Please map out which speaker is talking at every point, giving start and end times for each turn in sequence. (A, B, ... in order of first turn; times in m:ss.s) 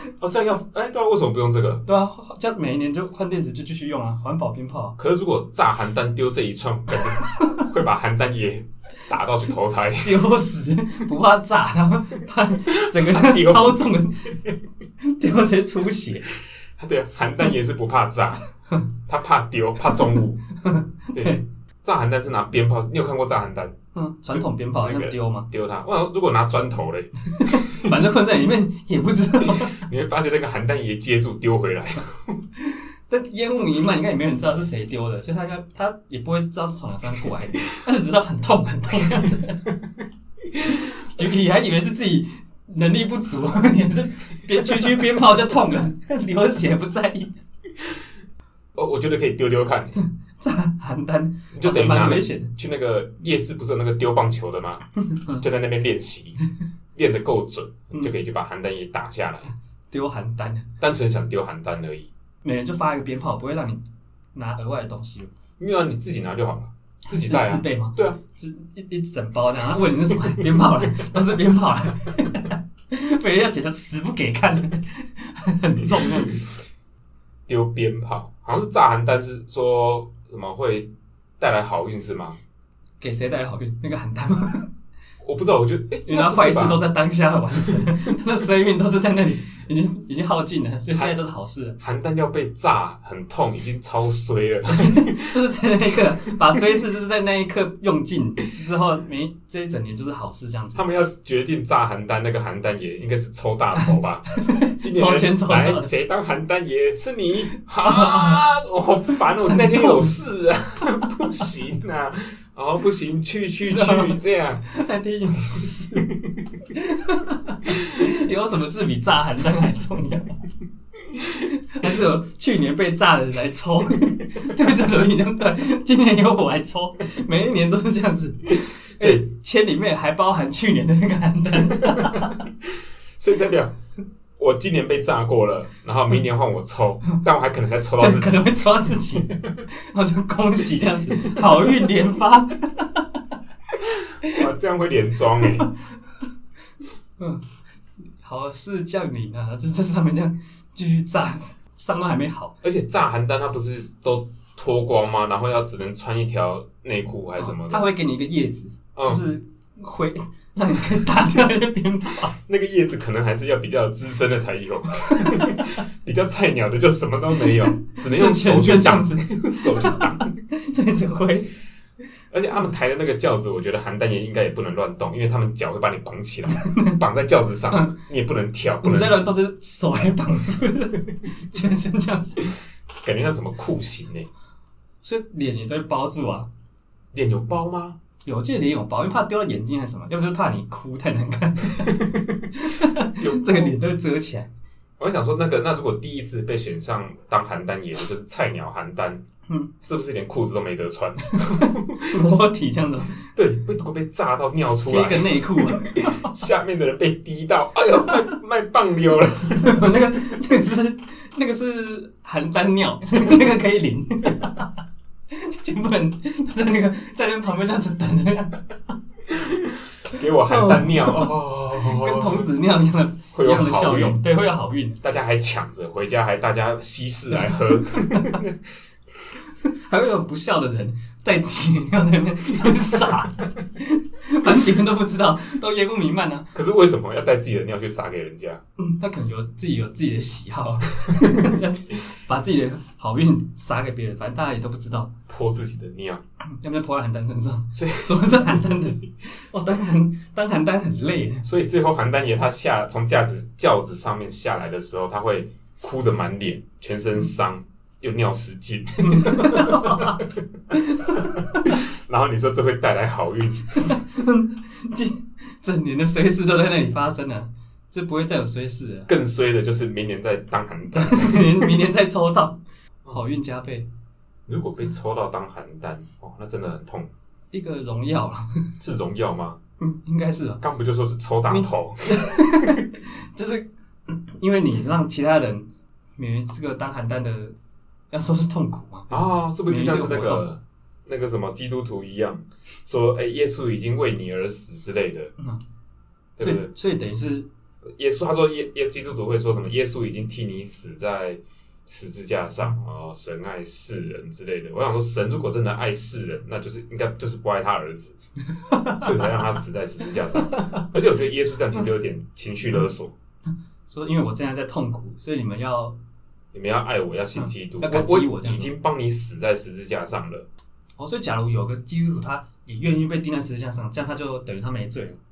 0:00.2-0:01.8 A
0:01.8-0:05.0 B
0:05.0-0:10.3 A
0:07.2-0:07.5 B
0:10.0-0:14.4 B
0:12.6-0:13.9 A
0:15.0-0:16.3 B
0:16.8-0:18.4 A
0:19.1-0:20.4 A
0:20.6-0:21.4 B
0:21.1-0:23.8 A
0:23.9-0:25.5 B
0:24.4-0:27.8 A
0:27.4-0:29.8 B
0:29.8-0:32.4 A
0:32.6-0:39.7 B
0:40.6-0:47.3 B
0:44.6-0:44.9 A
0:48.8-0:50.0 A
0:50.0-0:52.5 B
0:51.5-0:56.4 A
0:55.1-0:55.4 B
0:57.0-0:59.5 A
0:59.9-1:00.7 B
1:00.8-1:02.1 A
1:02.4-1:03.8 B
1:04.3-1:05.3 B
1:05.6-1:08.2 A
1:07.1-1:16.5 B
1:17.5-1:22.4 A
1:23.0-1:24.7 B
1:25.2-1:26.9 A
1:26.1-1:31.8 B
1:30.9-1:31.2 A
1:31.8-1:35.4 A
1:34.7-1:40.8 B
1:40.8-1:44.3 A
1:44.4-1:45.9 B
1:44.8-1:54.6 A
1:47.8-1:48.4 B
1:49.4-1:50.1 B
1:53.7-1:56.1 B
1:56.7-2:00.3 B
2:01.2-2:12.4 B
2:09.0-2:09.2 A
2:11.8-2:12.4 A
2:13.2-2:13.8 A
2:14.4-2:19.2 A
2:18.0-2:23.2 B
2:24.2-2:25.7 A
2:27.2-2:27.4 B
2:28.2-2:32.6 B
2:32.6-2:37.8 A
2:37.4-2:42.3 B
2:39.0-2:39.2 A
2:42.4-2:50.3 A
2:45.0-2:45.4 B
2:47.5-2:51.5 B
2:52.3-2:59.2 A
2:56.6-2:57.0 B
2:58.8-3:02.5 B
3:03.0-3:04.3 A
3:05.0-3:06.5 B
3:07.1-3:08.0 A
3:08.2-3:14.5 B
3:11.9-3:12.2 A
3:13.2-3:13.8 A
3:15.0-3:19.2 A
3:19.8-3:22.2 A
3:21.4-3:23.2 B
3:23.4-3:29.9 A
3:24.8-3:26.3 B
3:29.6-3:34.7 B
3:35.3-3:38.7 B
3:39.3-3:42.5 A
3:40.5-3:45.0 B
3:43.3-3:44.2 A
3:45.0-3:48.6 A
3:47.3-3:48.4 B
3:49.6-3:56.5 B
3:56.5-3:58.6 A
3:58.8-4:05.1 B
4:05.3-4:06.2 A
4:06.5-4:11.4 B
4:07.7-4:08.8 A
4:11.4-4:20.2 A
4:19.0-4:20.2 B
4:20.7-4:21.7 B
4:21.7-4:23.8 A
4:23.8-4:29.1 B
4:29.1-4:31.8 A
4:30.9-4:33.9 B
4:34.5-4:37.1 A
4:37.5-4:38.5 B
4:38.8-4:39.6 A
4:39.8-4:40.6 B
4:40.6-4:42.2 A
4:41.5-4:47.6 B
4:48.1-4:50.5 B
4:49.1-4:55.3 A
4:56.4-4:56.7 A
4:56.4-4:57.5 B
4:57.9-5:08.2 A
5:08.6-5:09.1 B
5:09.0-5:13.1 A
5:13.9-5:16.0 B
5:16.5-5:20.5 A
5:17.4-5:18.7 B
5:21.0-5:25.2 B